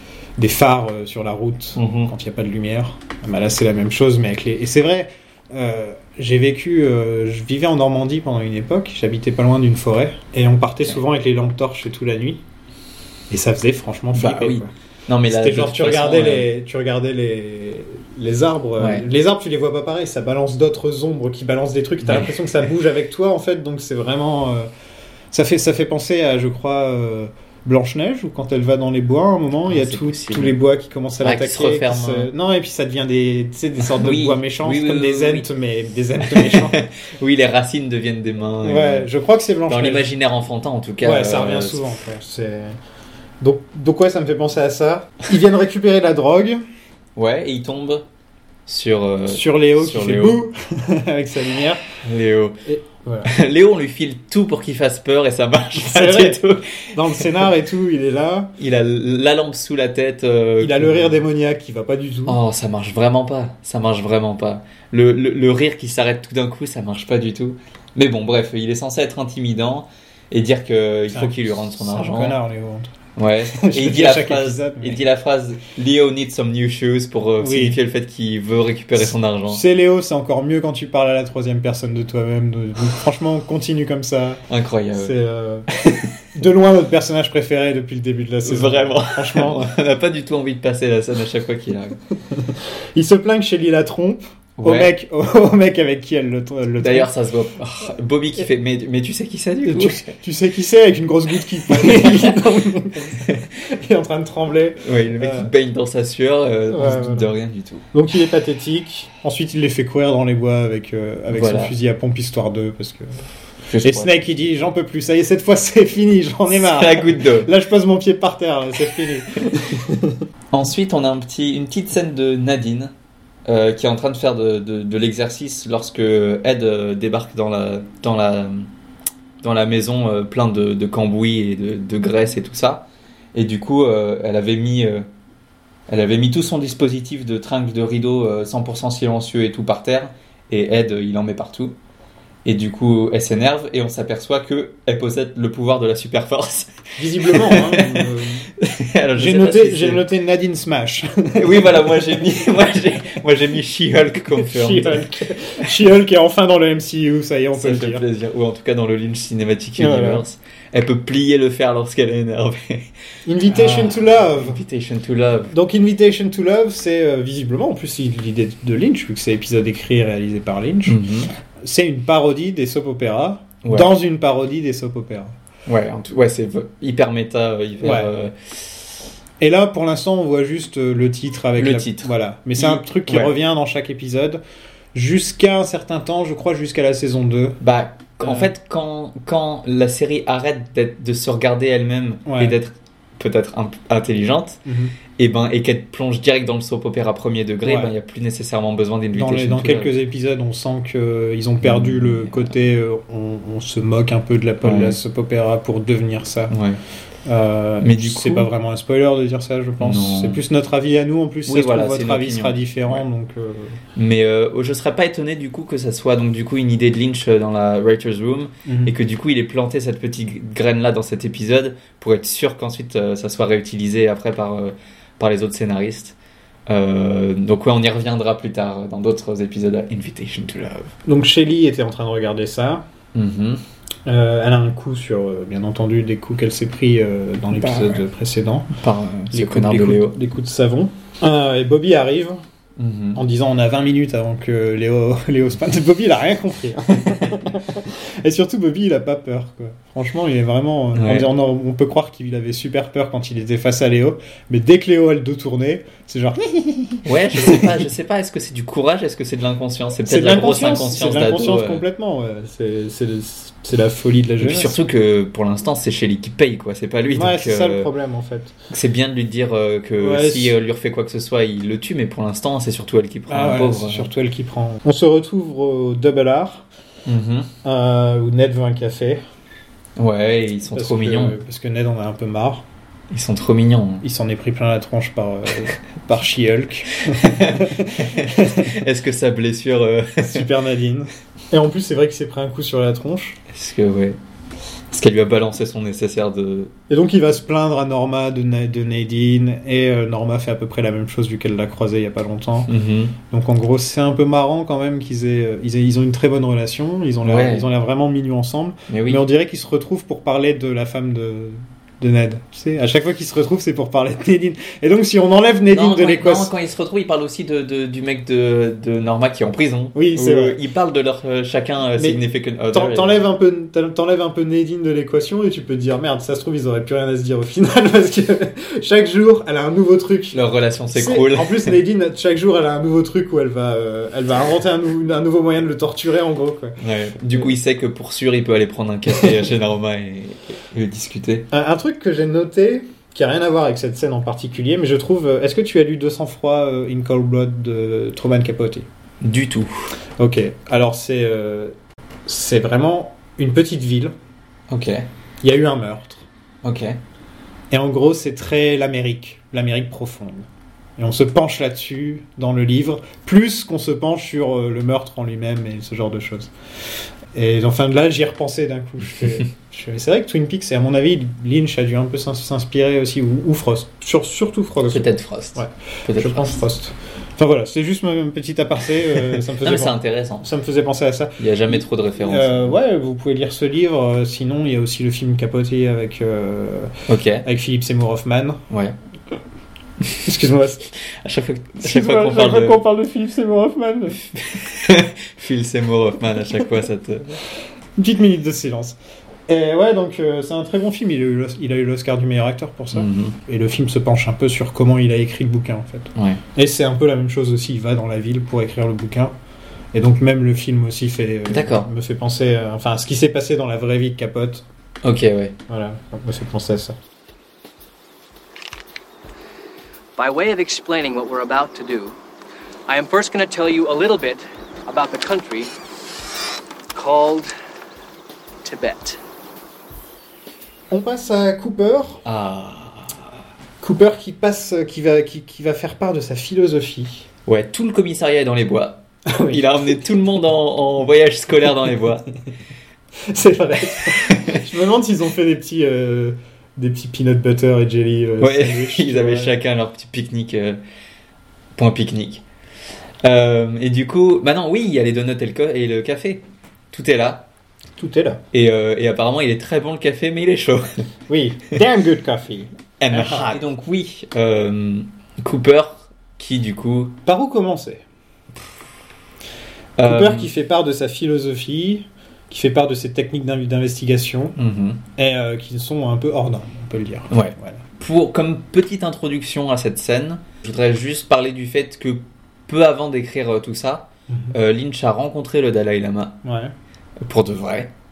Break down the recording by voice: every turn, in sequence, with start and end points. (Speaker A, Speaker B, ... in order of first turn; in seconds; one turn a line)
Speaker A: 0.4-12.4
Speaker B: 1.8-2.1
Speaker A: 13.3-14.7
Speaker B: 14.1-16.5
Speaker A: 15.3-24.7
Speaker B: 18.8-19.1
Speaker B: 22.0-22.4
Speaker A: 25.3-36.8
Speaker B: 29.7-30.6
Speaker B: 31.2-32.3
Speaker B: 33.8-35.5
Speaker B: 36.3-39.1
Speaker A: 38.6-40.1
Speaker B: 39.7-41.9
Speaker A: 41.0-42.8
Speaker A: 43.4-46.6
Speaker B: 47.2-48.0
Speaker B: 48.7-50.4
Speaker A: 49.3-51.8
Speaker B: 52.0-52.6
Speaker A: 52.7-53.3
Speaker B: 53.2-57.3
Speaker A: 55.8-56.4
Speaker A: 56.9-58.5
Speaker B: 58.6-61.2
Speaker A: 60.6-62.4
Speaker B: 62.3-72.4
Speaker A: 71.1-72.9
Speaker B: 73.2-79.6
Speaker A: 73.5-75.0
Speaker A: 77.4-77.8
Speaker A: 79.0-85.7
Speaker B: 84.5-85.2
Speaker B: 85.8-86.1
Speaker A: 86.3-89.8
Speaker B: 88.5-92.0
Speaker A: 92.3-97.1
Speaker B: 94.6-94.9
Speaker B: 96.8-100.2
Speaker A: 99.6-105.5
Speaker B: 101.7-102.4
Speaker B: 103.2-103.5
Speaker B: 104.8-107.8
Speaker A: 106.7-107.3
Speaker A: 107.9-113.2
Speaker B: 111.3-111.8
Speaker B: 113.7-114.2
Speaker A: 113.8-120.2
Speaker B: 116.5-117.5
Speaker B: 119.3-119.6
Speaker B: 120.5-122.9
Speaker B: 123.5-128.7
Speaker B: 129.4-135.1
Speaker B: 135.9-141.8
Speaker B: 142.4-148.1
Speaker A: 147.0-148.5
Speaker B: 148.6-150.1
Speaker A: 149.2-152.2
Speaker B: 151.3-155.1
Speaker A: 154.4-158.1
Speaker B: 157.6-162.9
Speaker A: 159.8-160.3
Speaker A: 163.3-164.6
Speaker B: 163.5-165.6
Speaker A: 165.5-171.1
Speaker B: 170.9-171.3
Speaker A: 171.6-175.3
Speaker B: 173.6-173.9
Speaker B: 175.7-178.6
Speaker A: 177.8-178.2
Speaker A: 179.4-184.4
Speaker B: 181.6-183.3
Speaker A: 184.9-187.6
Speaker B: 187.6-194.6
Speaker A: 188.2-188.5
Speaker A: 192.3-192.6
Speaker A: 194.7-195.0
Speaker B: 195.2-199.9
Speaker A: 197.6-197.9
Speaker A: 199.1-206.5
Speaker B: 201.6-202.5
Speaker B: 204.6-205.0
Speaker B: 206.5-206.8
Speaker A: 207.2-213.8
Speaker B: 207.8-208.5
Speaker B: 209.8-210.4
Speaker B: 211.5-213.1
Speaker B: 214.0-226.2
Speaker A: 218.7-218.9
Speaker B: 226.7-230.9
Speaker A: 231.1-232.8
Speaker B: 233.2-233.6
Speaker A: 234.1-238.7
Speaker B: 237.6-238.0
Speaker B: 238.8-240.2
Speaker A: 239.3-242.4
Speaker B: 242.8-243.2
Speaker A: 243.2-257.8
Speaker B: 250.9-251.3
Speaker B: 257.1-261.8
Speaker A: 260.0-264.8
Speaker B: 264.4-267.9
Speaker A: 267.1-268.6
Speaker B: 268.7-274.1
Speaker A: 270.0-270.6
Speaker A: 273.3-276.6
Speaker B: 277.1-277.5
Speaker A: 277.6-279.2
Speaker B: 280.0-281.4
Speaker A: 280.7-282.6
Speaker B: 283.1-284.0
Speaker A: 284.0-288.8
Speaker B: 287.1-290.5
Speaker A: 290.2-293.4
Speaker B: 293.5-294.2
Speaker B: 294.9-296.7
Speaker A: 296.9-302.7
Speaker B: 302.7-303.2
Speaker A: 303.2-316.5
Speaker B: 307.2-307.7
Speaker B: 308.9-309.2
Speaker B: 315.7-323.2
Speaker A: 319.9-320.6
Speaker A: 322.0-330.4
Speaker B: 330.3-331.8
Speaker A: 330.9-336.8
Speaker B: 336.8-341.5
Speaker A: 341.5-348.9
Speaker B: 349.2-349.9
Speaker A: 350.2-351.8
Speaker A: 352.3-354.1
Speaker B: 354.7-355.1
Speaker A: 355.4-356.3
Speaker B: 356.6-357.0
Speaker A: 357.7-366.5
Speaker A: 367.3-388.6
Speaker B: 374.9-376.6
Speaker B: 379.3-380.5
Speaker B: 381.4-382.8
Speaker B: 387.1-387.5
Speaker B: 388.7-389.0
Speaker A: 390.2-390.9
Speaker B: 391.0-392.8
Speaker A: 391.8-394.2
Speaker B: 394.2-397.4
Speaker A: 398.0-399.0
Speaker A: 399.5-409.3
Speaker B: 402.9-403.4
Speaker B: 406.1-406.4
Speaker A: 409.9-414.6
Speaker B: 411.5-411.9
Speaker B: 415.0-415.6
Speaker A: 415.7-417.0
Speaker C: 420.2-422.2
Speaker C: 422.9-425.7
Speaker C: 426.9-427.5
Speaker C: 428.6-429.2
Speaker A: 430.9-432.2
Speaker B: 432.2-433.1
Speaker A: 433.8-437.3
Speaker B: 437.5-442.3
Speaker A: 439.3-440.1
Speaker A: 443.2-449.6
Speaker B: 444.1-444.6
Speaker B: 448.4-450.8
Speaker B: 451.8-452.4
Speaker B: 453.2-457.5
Speaker A: 458.0-458.4
Speaker B: 458.5-461.0
Speaker A: 461.3-463.6
Speaker B: 463.0-467.2
Speaker A: 467.2-468.0
Speaker B: 470.0-470.5
Speaker A: 470.0-474.6
Speaker B: 474.6-475.0
Speaker A: 475.2-477.8
Speaker B: 477.3-486.4
Speaker A: 484.3-484.6
Speaker A: 486.4-486.7
Speaker B: 487.2-487.9